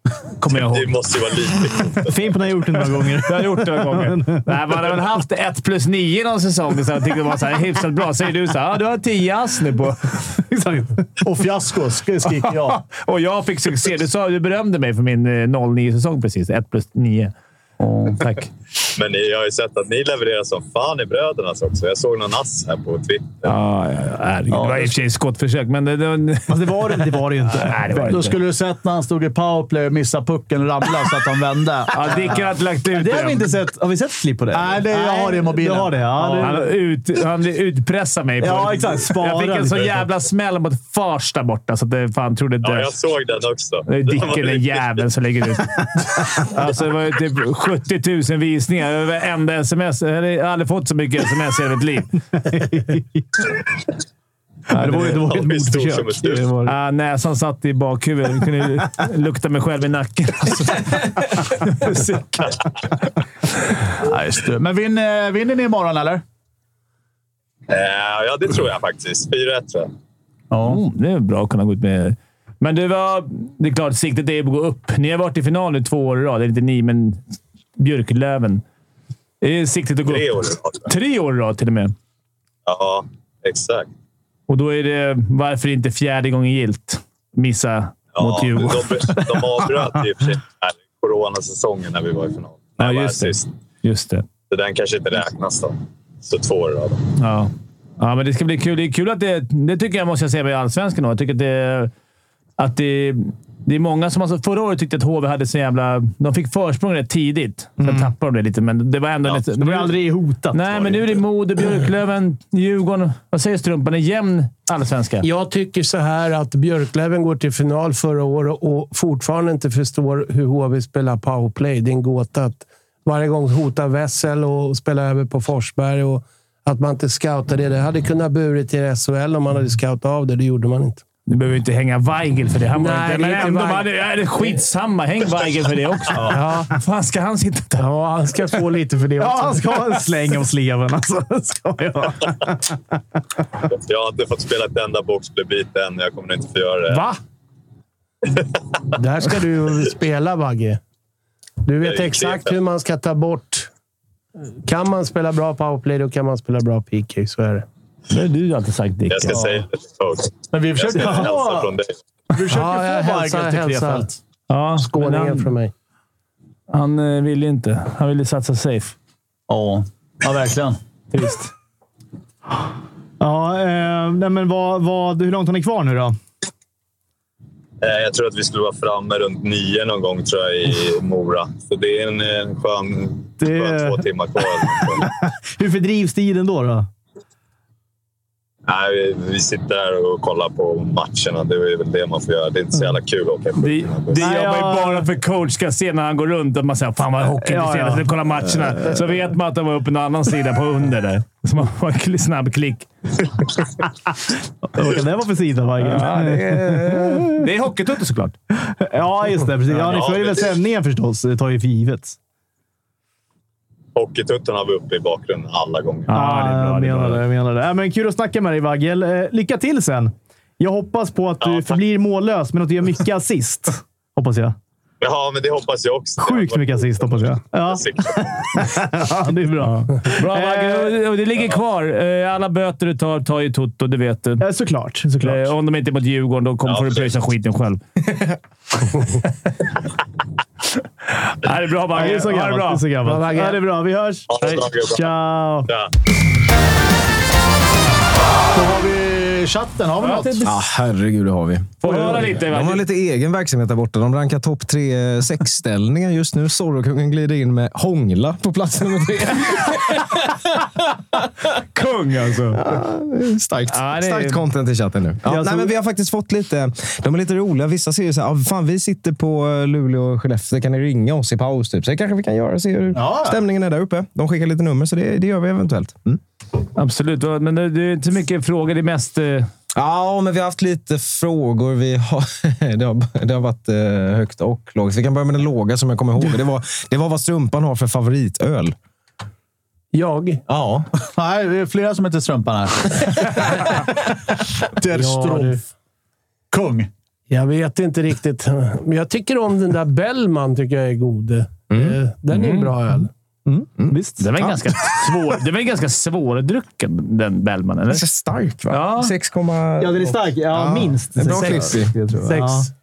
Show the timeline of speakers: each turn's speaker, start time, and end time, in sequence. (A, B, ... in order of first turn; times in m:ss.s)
0:00.4-0:00.9 A
0:00.5-0:02.4 B
0:02.0-0:04.5 C
0:03.2-0:10.1 A
0:10.4-0:11.1 C
0:11.2-0:12.8 D
0:12.4-0:17.3 A
0:17.8-0:18.2 D
0:18.1-0:18.5 A
0:19.0-0:23.5 B
0:23.4-0:28.4 A
0:24.5-0:25.0 D
0:26.5-0:28.2 C
0:28.1-0:32.4 D
0:31.9-0:33.5 A
0:32.9-0:36.7 C
0:34.5-0:36.4 D
0:36.2-0:43.0 A
0:38.4-0:40.0 C
0:42.6-0:44.8 B
0:43.9-0:52.1 A
0:52.3-0:53.4 C
0:54.7-0:55.2 A
0:54.8-0:56.8 C
0:55.0-0:56.5 B
0:56.7-1:02.6 A
1:04.0-1:06.2 D
1:07.7-1:09.9 B
1:10.5-1:10.8 D
1:10.6-1:17.2 A
1:17.8-1:18.6 A
1:19.4-1:21.9 A
1:20.1-1:20.9 B
1:22.7-1:23.9 B
1:24.5-1:29.3 A
1:28.2-1:33.5 B
1:32.8-1:34.2 A
1:34.5-1:37.1 B
1:37.2-1:41.9 A
1:42.6-1:50.0 A
1:47.8-1:48.1 C
1:49.5-1:51.0 C
1:50.5-1:55.3 A
1:55.2-2:11.0 E
2:11.3-2:17.8 A
2:12.8-2:13.9 E
2:16.2-2:16.7 E
2:17.8-2:20.0 E
2:19.2-2:23.0 C
2:23.7-2:27.0 B
2:29.0-2:30.8 E
2:31.6-2:33.7 E
2:31.8-2:32.6 B
2:34.6-2:37.6 E
2:38.1-2:39.4 A
2:39.1-2:41.9 B
2:40.5-2:41.6 D
2:41.0-2:41.7 C
2:42.3-2:44.2 D
2:42.5-2:44.1 E
2:44.5-2:45.5 A
2:44.8-2:45.7 E
2:46.7-2:49.0 A
2:49.5-2:50.8 D
2:51.1-2:51.5 A
2:53.2-2:56.2 C
2:57.8-3:05.1 B
3:03.4-3:04.1 C
3:04.6-3:06.9 C
3:08.7-3:14.3 B
3:13.6-3:22.9 A
3:14.2-3:15.1 C
3:17.4-3:18.9 C
3:24.7-3:27.5 C
3:25.8-3:28.4 A
3:28.6-3:32.2 C
3:29.8-3:30.6 B
3:34.0-3:36.1 B
3:36.1-3:37.2 A
3:36.1-3:44.6 C
3:41.4-3:41.8 B
3:45.0-3:48.6 B
3:46.2-3:51.0 C
3:49.6-3:54.4 A
3:54.4-3:55.5 C
3:55.2-3:57.8 A
3:56.7-3:57.1 B
4:01.1-4:02.9 A
4:01.9-4:05.7 C
4:03.0-4:03.6 E
4:04.3-4:05.1 B
4:08.5-4:10.5 D
4:10.0-4:10.5 A
4:10.4-4:20.3 F
4:11.8-4:12.8 A
4:11.9-4:12.3 C
4:21.5-4:22.6 A
4:22.6-4:36.2 F
4:23.7-4:24.4 A
4:25.3-4:25.7 C
4:32.9-4:33.4 D
4:36.8-4:39.5 A
4:39.8-4:48.8 F
4:49.9-4:50.4 E
4:50.5-4:50.9 F
4:51.0-4:54.0 D
4:54.8-4:55.6 D
4:54.9-4:55.6 E
4:56.5-4:56.9 D
4:57.3-5:03.1 E
5:01.7-5:02.0 F
5:02.3-5:02.7 A
5:03.5-5:04.3 C
5:03.8-5:04.6 F
5:04.2-5:08.0 A
5:07.9-5:11.9 F
5:08.7-5:09.1 A
5:09.8-5:12.7 C
5:12.2-5:12.7 E